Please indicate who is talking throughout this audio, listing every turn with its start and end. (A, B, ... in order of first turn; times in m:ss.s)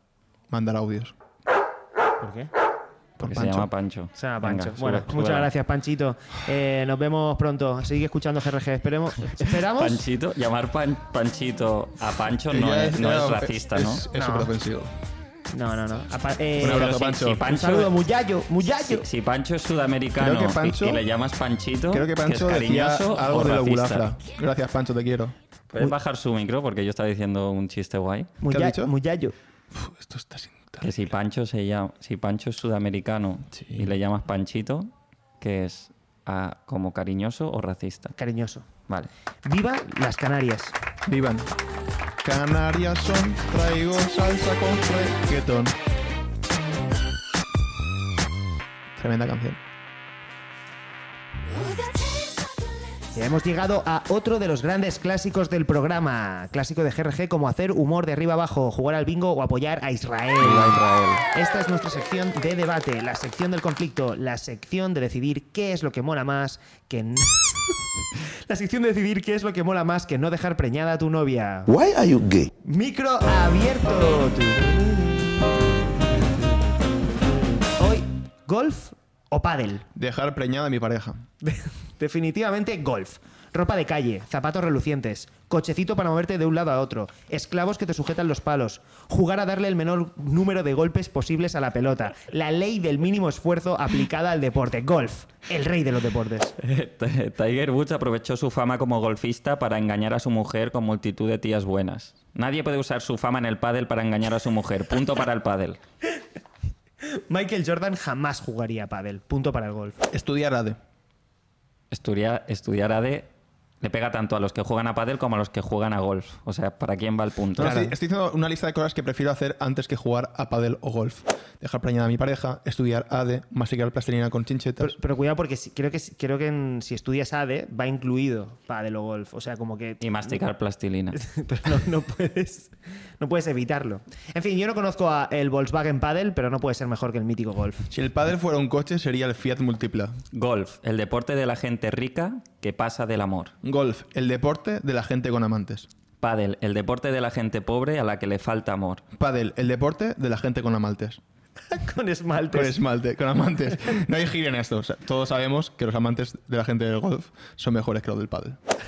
0:00.5-0:01.1 A
0:02.2-0:02.5 B
0:03.2-0:03.7 A
0:03.2-0:05.5 C
0:04.2-0:10.0 B
0:09.6-0:14.0 C
0:12.5-0:14.9 A
0:14.1-0:14.5 B
0:15.5-0:19.0 B
0:16.6-0:17.5 A
0:16.6-0:17.9 C
0:18.8-0:24.1 C
0:20.2-0:21.0 A
0:21.9-0:25.3 A
0:25.7-0:28.3 C
0:28.4-0:29.3 B
0:28.5-0:28.9 A
0:29.7-0:31.0 A
0:30.8-0:38.1 C
0:33.5-0:33.9 A
0:38.2-0:38.6 B
0:39.4-0:40.7 B
0:41.1-0:41.5 A
0:42.2-0:45.7 A
0:49.0-0:49.6 A
0:53.1-1:07.8 B
1:00.4-1:01.2 C
1:08.5-1:11.8 B
1:12.6-1:15.5 B
1:17.8-1:19.8 B
1:19.9-1:21.2 A
1:21.4-1:36.5 B
1:36.6-1:45.8 C
1:47.1-1:50.0 B
1:50.1-1:50.8 A
1:51.9-1:53.3 C
1:53.8-1:57.8 C
1:57.6-2:04.9 A
1:57.6-1:57.9 B
2:04.8-2:10.4 B
2:10.0-2:11.2 C
2:11.1-2:17.9 B
2:17.9-2:20.2 A
2:20.3-2:23.5 C
2:23.6-2:25.9 A
2:26.2-2:29.0 C
2:29.2-2:31.2 A
2:31.7-2:32.8 B
2:32.5-2:38.6 A